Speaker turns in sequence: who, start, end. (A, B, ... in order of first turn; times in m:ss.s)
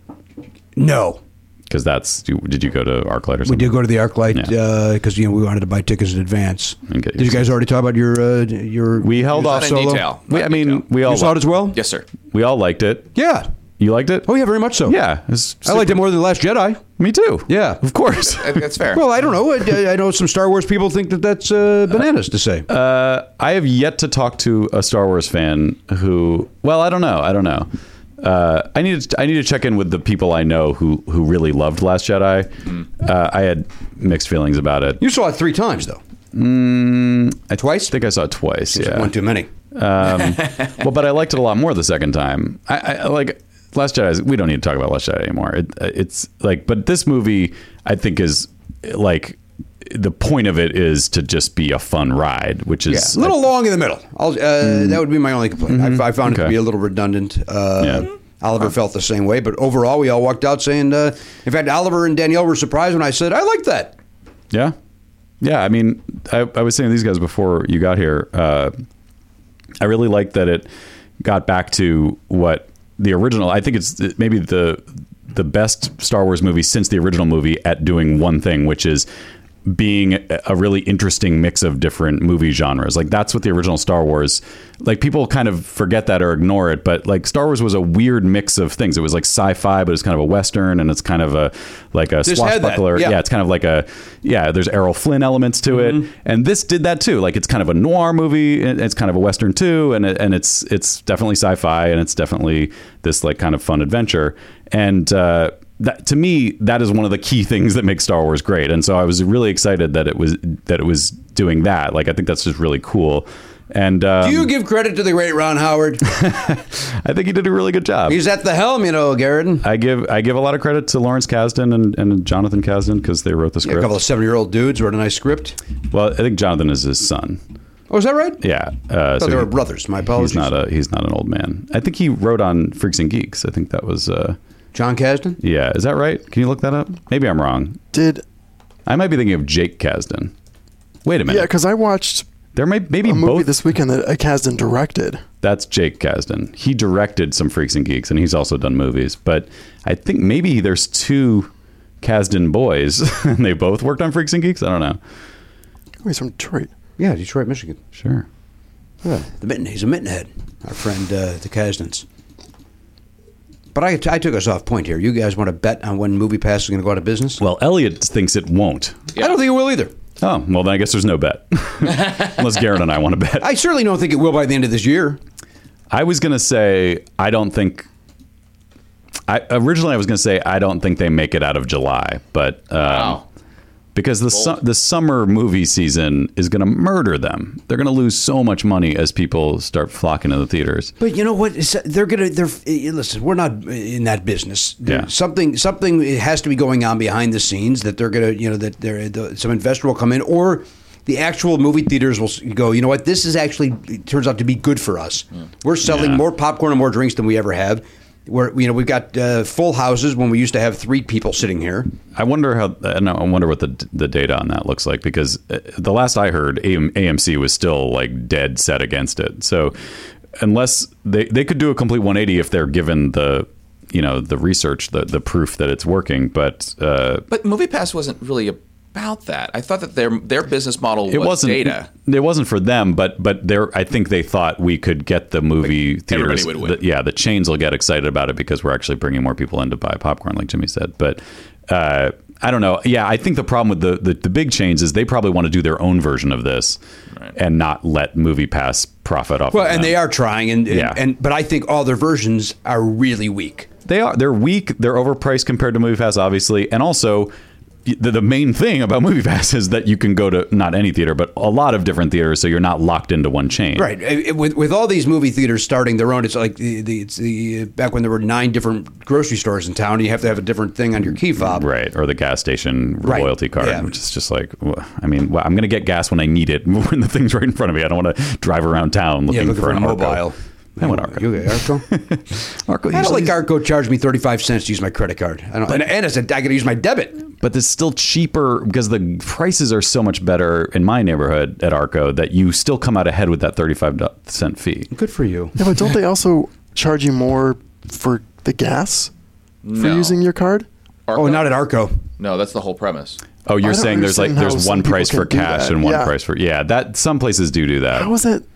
0:00.8-0:01.2 A
0:01.7-0:04.5 B
0:03.4-0:10.0 A
0:06.9-0:07.5 B
0:09.0-0:11.4 B
0:09.3-0:10.9 C
0:11.0-0:11.8 A
0:11.7-0:12.0 C
0:12.3-0:13.1 B
0:13.1-0:13.5 A
0:13.8-0:14.3 B
0:14.2-0:15.0 A
0:14.8-0:16.1 B
0:15.6-0:16.8 A
0:17.0-0:18.7 B
0:17.5-0:17.8 A
0:18.3-0:19.0 C
0:18.9-0:22.7 A
0:22.7-0:27.7 B
0:28.2-0:35.0 B
0:35.0-0:36.0 A
0:36.3-0:39.1 B
0:37.6-0:37.9 A
0:38.7-0:39.5 A
0:39.7-0:53.4 B
0:52.9-1:03.9 A
0:54.6-0:55.0 B
0:55.7-0:56.6 B
0:57.8-0:58.1 B
1:05.4-1:08.7 B
1:09.8-1:10.7 B
1:11.2-1:19.1 B
1:19.6-1:54.5 B
1:32.2-1:33.2 A
1:35.7-1:36.0 A
1:54.2-1:56.0 A
1:56.1-1:58.2 B
1:58.1-1:59.6 A
1:59.6-2:03.9 B
2:03.6-2:05.6 A
2:05.9-2:07.4 B
2:07.9-2:08.4 A
2:08.4-2:09.5 B
2:09.2-2:10.5 A
2:10.1-2:14.4 B
2:14.7-2:15.4 A
2:15.4-2:17.8 B
2:17.9-2:18.2 D
2:18.8-2:20.3 B
2:21.0-2:21.5 B
2:21.3-2:22.3 D
2:22.5-2:23.5 B
2:23.0-2:25.2 D
2:25.4-2:31.5 B
2:32.0-2:35.0 B
2:36.0-2:36.7 D
2:37.0-2:37.8 A
2:37.9-2:38.2 B
2:39.0-2:42.0 A
2:43.7-2:47.4 A
2:47.4-2:49.0 B
2:49.1-2:49.9 A
2:50.2-2:53.5 B
2:53.4-2:55.2 A
2:55.9-2:57.9 B
2:59.3-3:03.2 B
3:02.8-3:03.2 C
3:03.9-3:10.9 B
3:11.0-3:31.9 A
3:25.8-3:26.2 B
3:32.1-3:39.8 B
3:40.4-3:47.2 B
3:47.3-3:51.9 C
3:51.1-4:06.8 B
3:55.6-3:56.8 C
4:07.3-4:10.0 B
4:09.5-4:13.7 A
4:10.7-4:11.0 B
4:13.8-4:17.3 B
4:17.8-4:23.9 B
4:23.8-4:31.6 A
4:31.4-4:40.2 B
4:33.0-4:33.9 A
4:39.3-4:41.8 A
4:40.8-4:43.4 B
4:42.9-4:47.2 A
4:47.4-4:54.9 B
4:54.9-4:55.6 A
4:55.6-4:59.1 D
4:59.6-5:00.2 C
4:59.8-5:00.7 D
5:01.1-5:01.5 C
5:01.1-5:02.0 A
5:02.2-5:03.2 C
5:03.4-5:08.1 B
5:03.6-5:06.1 D
5:07.9-5:08.4 D